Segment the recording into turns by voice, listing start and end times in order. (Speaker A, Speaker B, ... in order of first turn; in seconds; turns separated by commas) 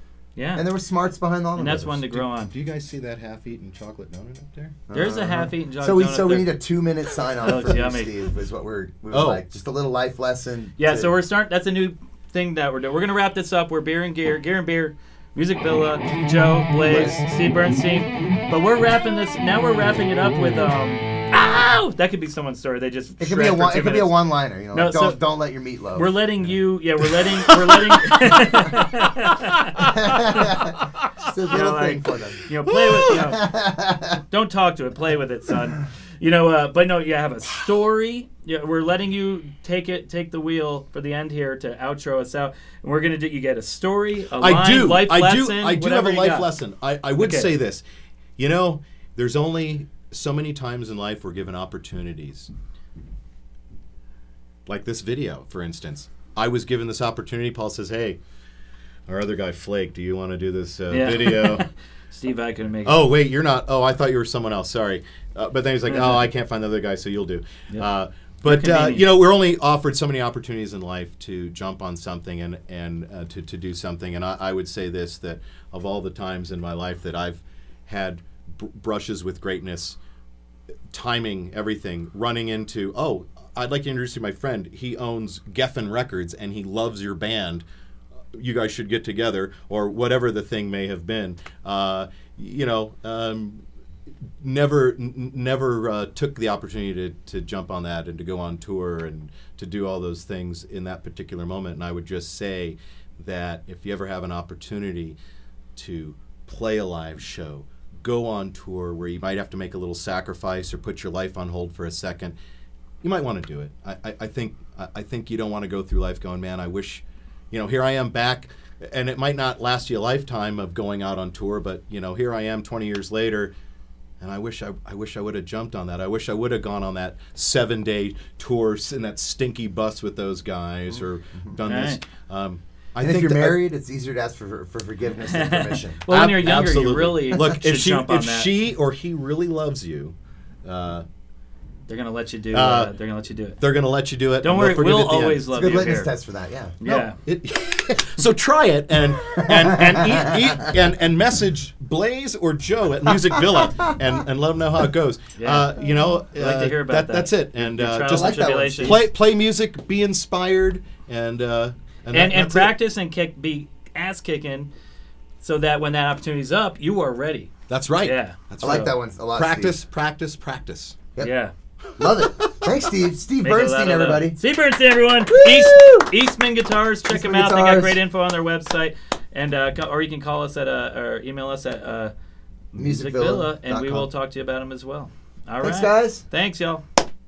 Speaker A: 0.3-0.6, Speaker B: 0.5-2.0, Speaker A: 1.6-2.5, Speaker C: 2.1-4.8, Speaker B: 4.9-11.1, Speaker A: 4.9-6.5, Speaker A: 7.4-8.2, Speaker C: 9.1-9.4, Speaker A: 10.8-24.2, Speaker B: 16.8-17.2, Speaker B: 23.2-26.2, Speaker A: 24.7-25.2, Speaker A: 25.9-30.7, Speaker B: 29.8-34.2, Speaker A: 31.5-33.5, Speaker A: 34.3-46.5, Speaker C: 44.4-47.8, Speaker A: 47.2-47.5, Speaker C: 48.4-52.5, Speaker C: 54.7-58.2, Speaker C: 59.1-61.6, Speaker A: 60.9-63.0, Speaker C: 62.8-80.0, Speaker A: 65.9-66.3, Speaker A: 68.4-69.0, Speaker C: 80.9-87.6, Speaker C: 88.3-93.6, Speaker C: 94.4-105.2, Speaker C: 105.8-112.3, Speaker C: 113.0-123.5, Speaker C: 124.2-133.6, Speaker A: 131.7-132.0, Speaker B: 133.0-136.0, Speaker A: 135.2-138.5, Speaker C: 136.1-140.1, Speaker C: 140.6-141.0, Speaker A: 141.9-143.6, Speaker C: 142.5-142.9, Speaker C: 143.6-145.4, Speaker A: 144.4-146.1, Speaker B: 145.5-146.8, Speaker A: 146.8-147.2, Speaker C: 146.8-162.8, Speaker B: 149.4-150.7, Speaker A: 155.4-155.7, Speaker A: 156.3-159.0, Speaker B: 158.1-159.1, Speaker A: 162.1-164.7, Speaker A: 165.4-167.5, Speaker C: 167.7-171.0, Speaker A: 168.0-168.9, Speaker B: 168.6-169.7, Speaker A: 171.2-171.5, Speaker B: 172.0-174.4, Speaker C: 172.0-172.7, Speaker A: 173.4-182.1, Speaker B: 175.3-176.1, Speaker B: 177.1-178.0, Speaker A: 182.7-186.8, Speaker B: 182.8-184.1, Speaker B: 185.6-186.2